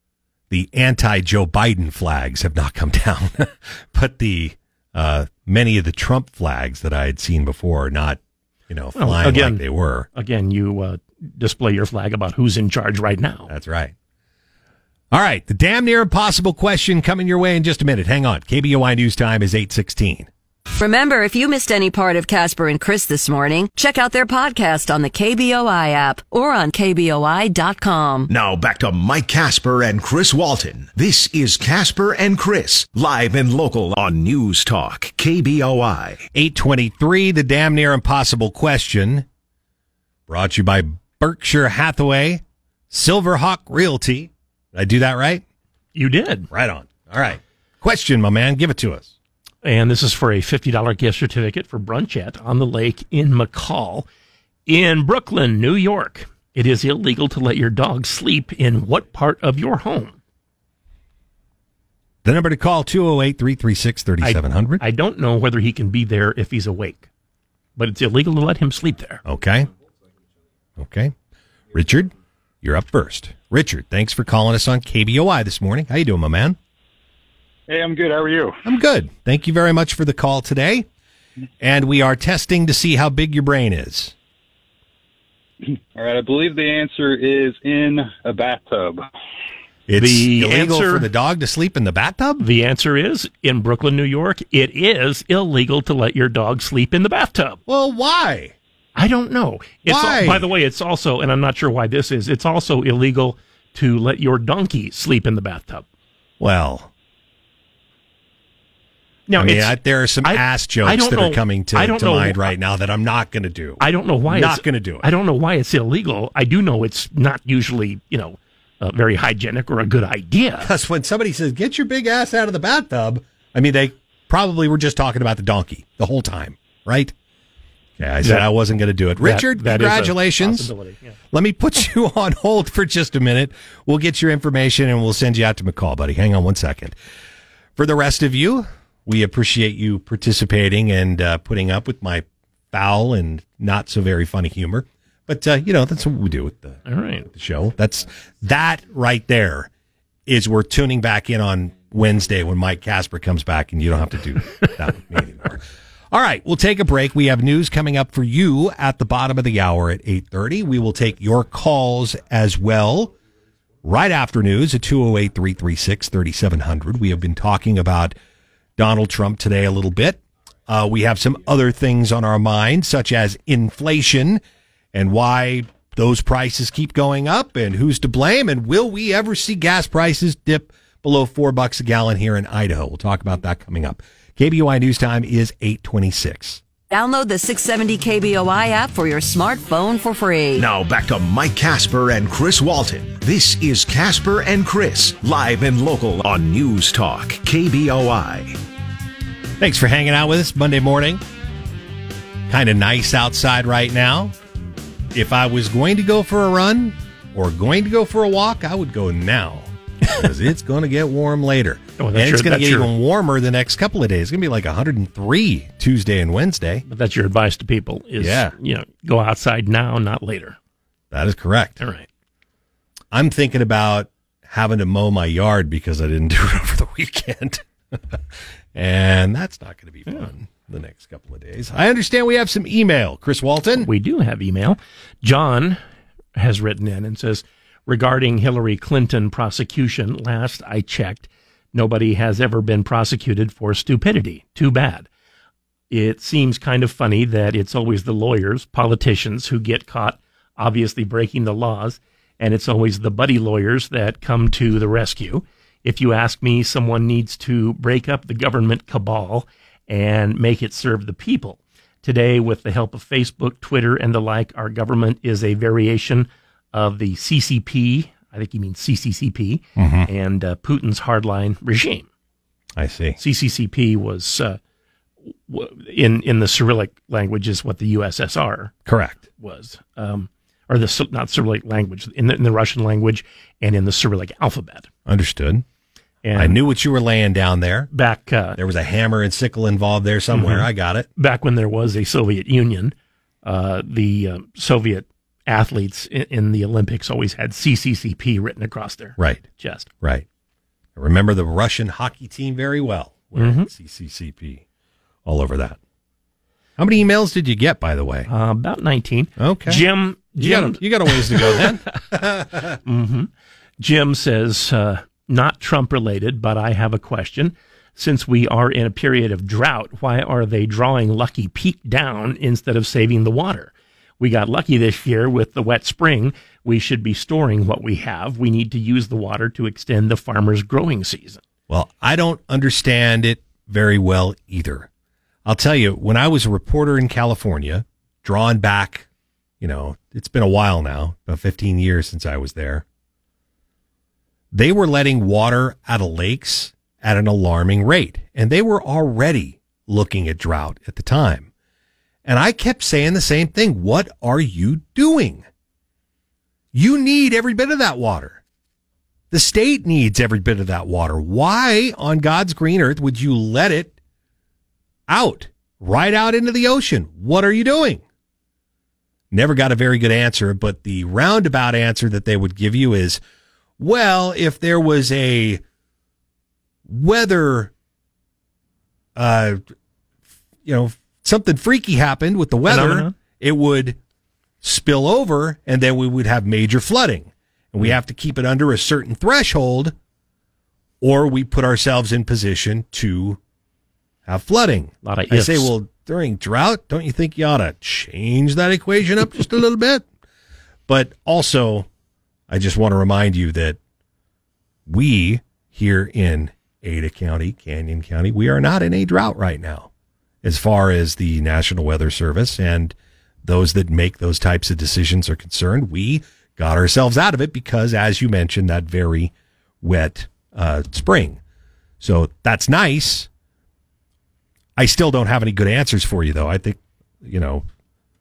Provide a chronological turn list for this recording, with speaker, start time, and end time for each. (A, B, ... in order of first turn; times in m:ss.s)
0:00.5-0:10.1 A
0:09.0-0:09.6 B
0:10.2-0:13.5 B
0:13.5-0:14.0 A
0:15.1-0:20.3 A
0:20.8-0:28.3 C
0:28.3-0:36.2 D
0:36.3-0:39.3 A
0:40.3-0:45.4 A
0:46.0-0:46.5 B
0:46.5-0:49.1 A
0:49.6-0:54.1 B
0:54.7-1:00.2 B
1:02.2-1:04.8 A
1:04.2-1:07.1 B
1:07.8-1:09.2 B
1:09.2-1:09.7 A
1:10.8-1:11.1 A
1:11.7-1:16.6 A
1:17.7-1:18.6 E
1:18.6-1:20.9 A
1:21.6-1:24.2 A
1:25.7-1:29.1 E
1:29.9-1:32.4 A
1:30.0-1:31.1 B
1:32.4-1:37.6 B
1:37.7-1:38.6 A
1:39.0-1:45.9 B
1:39.8-1:40.5 A
1:46.4-1:46.9 A
1:49.3-1:52.5 B
1:49.4-1:55.0 A
1:53.8-2:00.7 B
2:00.6-2:07.2 A
2:08.0-2:10.7 A
2:08.2-2:08.5 B
2:09.2-2:11.2 B
2:11.3-2:17.0 A
2:17.8-2:29.7 A
2:26.9-2:27.3 B
2:30.3-2:43.1 A
2:43.8-2:48.2 A
2:48.8-3:06.6 A
3:06.9-3:10.7 C
3:10.6-3:18.6 D
3:19.6-3:21.2 A
3:22.5-3:24.4 A
3:25.1-3:36.8 A
3:32.0-3:32.9 B
3:36.9-3:40.6 B
3:38.2-3:38.5 A
3:41.1-3:41.8 A
3:41.8-3:42.1 B
3:43.1-3:48.2 A
3:48.7-3:53.9 A
3:53.8-3:55.8 B
3:56.4-4:05.1 B
4:05.9-4:32.1 B
4:29.8-4:30.1 A
4:32.8-4:33.2 A
4:33.2-4:34.6 B
4:35.5-4:38.7 B
4:38.9-4:39.2 A
4:39.4-4:44.9 B
4:45.1-4:45.6 A
4:46.2-4:46.6 B
4:46.4-4:47.9 A
4:47.9-4:48.6 B
4:48.6-4:51.1 A
4:50.3-4:59.9 B
4:59.2-4:59.4 A
5:01.0-5:04.6 A
5:03.4-5:03.7 B
5:05.2-5:05.8 A
5:06.8-5:08.3 A
5:08.3-5:11.7 B
5:09.4-5:09.8 A
5:10.4-5:12.8 A
5:12.8-5:31.4 B
5:31.7-5:34.9 A
5:35.4-5:39.1 A
5:39.6-5:42.8 A
5:44.5-5:51.5 A
5:52.2-5:55.5 A
5:56.7-5:58.4 A
5:59.3-6:04.0 A
6:05.1-6:08.0 A
6:09.3-6:13.2 A
6:13.8-6:15.6 A
6:16.9-6:17.7 A
6:19.2-6:19.6 A
6:20.6-6:24.0 A
6:22.7-6:23.1 B
6:24.6-6:30.0 A
6:31.0-6:33.4 A
6:34.3-6:40.1 A
6:35.0-6:35.7 B
6:40.9-6:41.9 A
6:42.5-6:43.8 A
6:44.9-6:49.9 A
6:50.4-7:01.4 A
7:02.0-7:03.3 A
7:04.8-7:07.6 A